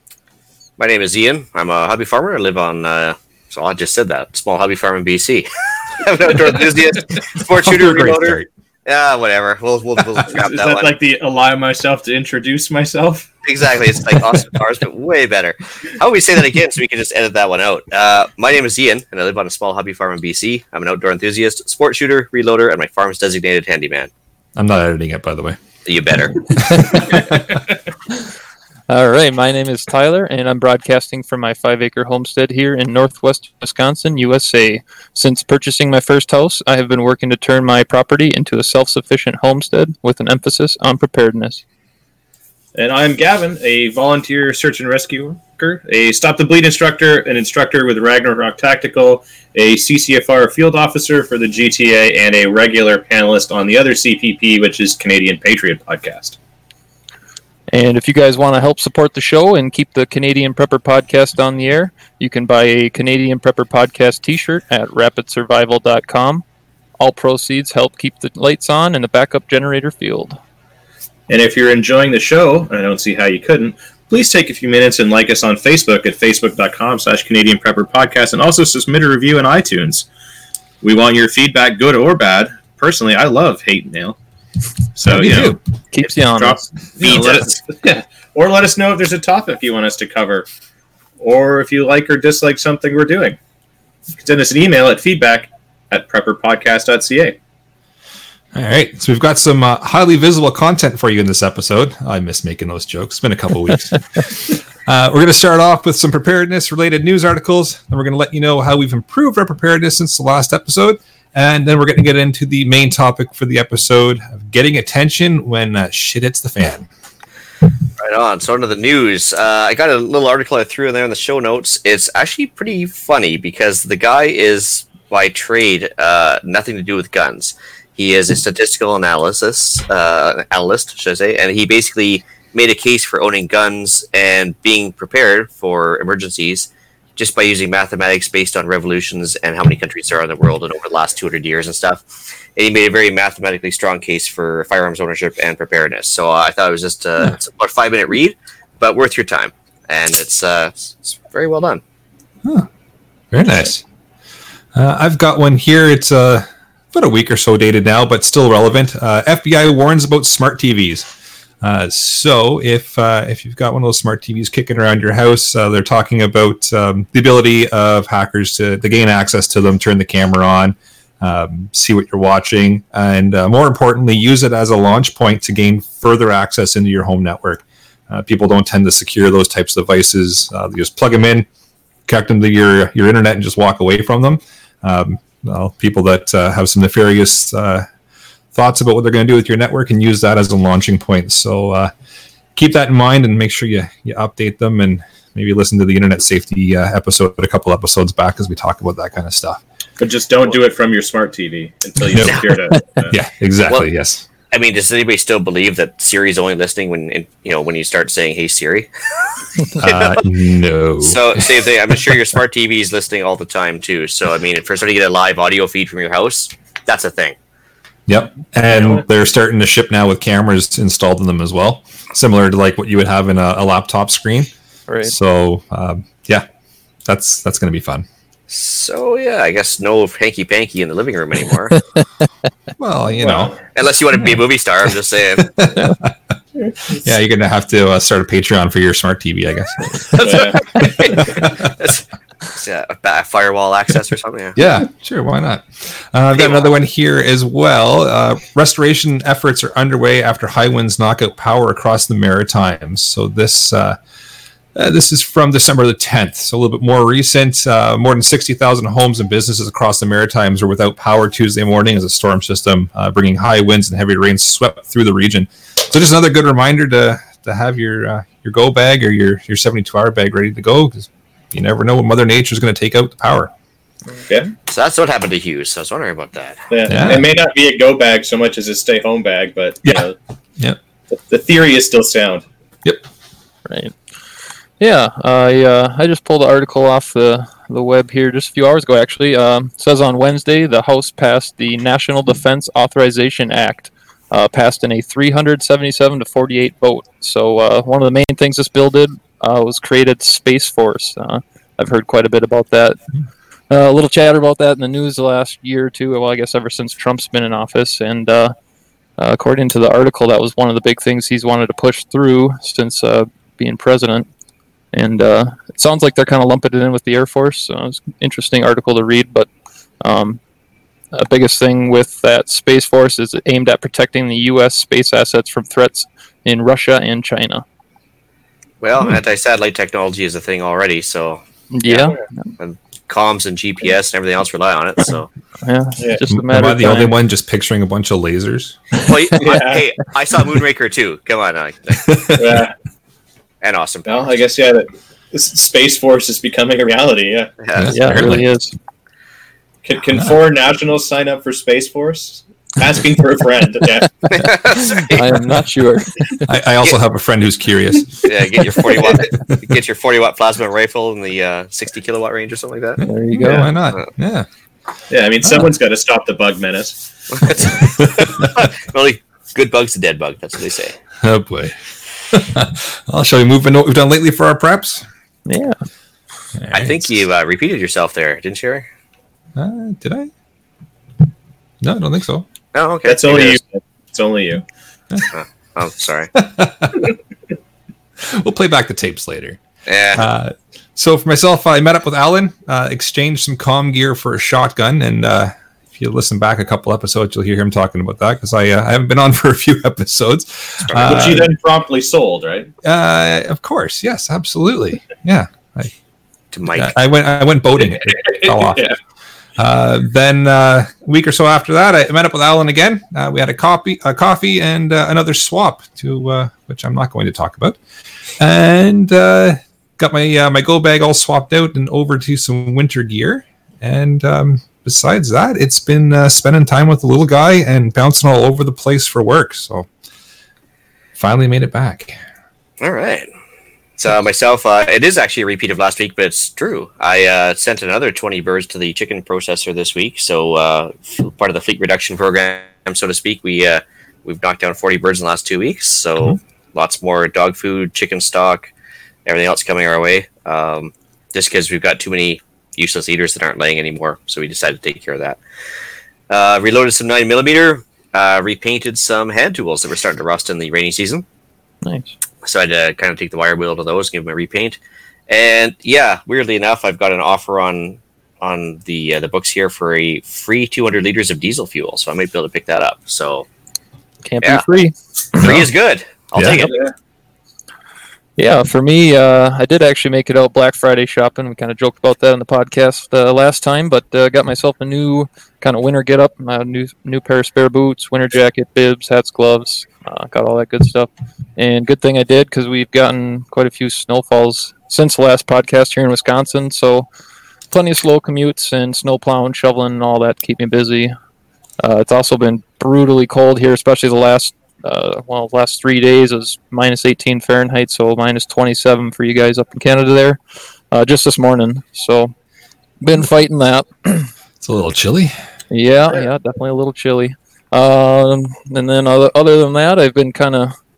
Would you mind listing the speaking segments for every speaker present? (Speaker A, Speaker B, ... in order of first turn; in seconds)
Speaker A: 0.8-10.9, 13.4-24.1, 25.9-27.1, 87.0-87.5, 118.0-151.8, 202.2-202.5, 204.5-210.3, 211.0-217.4, 228.5-231.8, 233.7-235.5, 240.2-244.6, 246.3-246.7, 274.7-276.7, 328.8-335.3, 339.0-342.2, 343.6-344.2, 347.6-348.4, 354.3-355.3, 358.2-363.0, 367.3-371.0, 376.7-378.9, 382.7-383.6, 385.3-386.3, 389.9-390.3, 400.8-401.2, 406.5-407.0, 432.8-433.3, 434.0-448.7, 449.3-455.4, 456.3-461.2, 462.4-464.8, 465.3-473.5, 475.4-476.8
Speaker B: 7.4-8.5, 24.6-25.6, 26.6-27.6, 85.1-85.6, 98.5-116.9, 153.3-153.8, 154.7-161.1, 161.6-181.5, 182.1-187.9, 188.5-191.9, 192.6-199.6, 202.1-202.6, 203.1-204.2, 209.8-212.2, 218.1-224.5, 225.0-226.5, 227.1-228.1, 232.8-233.5, 235.4-236.2, 236.9-241.7, 244.6-254.0, 254.8-273.5, 276.9-277.3, 336.3-338.8, 342.1-342.6, 347.7-348.5, 356.5-359.6, 363.0-364.5, 371.2-371.8, 372.3-375.1, 376.6-377.0, 379.6-380.3, 381.8-382.5, 386.4-387.1, 388.2-389.6, 390.1-401.5, 402.8-405.9, 406.7-408.9, 409.6-417.8, 418.4-429.9, 431.2-432.2, 475.4-475.7, 476.4-476.7, 514.6-515.3
Speaker C: 10.3-13.3, 42.8-56.4, 71.3-80.1, 80.8-84.2, 85.0-85.6, 86.4-90.5, 91.2-93.4, 94.2-97.4, 200.0-203.2, 218.7-219.0, 233.2-233.6, 240.2-240.6, 276.7-280.2, 281.1-282.4, 339.4-339.8, 342.4-342.8, 344.1-347.5, 349.8-354.2, 363.4-363.7, 365.1-367.0, 383.1-384.6, 401.0-402.7, 408.1-409.0, 476.6-476.9
Speaker D: 28.9-41.6, 57.7-66.4, 67.0-70.4, 85.2-86.7, 224.9-225.2, 283.7-283.9, 284.8-303.0, 303.7-308.5, 309.2-314.3, 314.9-319.5, 320.0-320.4, 321.1-327.6, 331.7-332.5, 335.6-337.1, 347.9-348.8, 354.9-356.5, 363.0-363.7, 375.5-375.8, 461.8-462.1, 474.2-474.9, 478.4-497.1, 497.7-501.1, 501.8-510.4, 510.9-512.3, 513.0-514.3, 515.7-520.8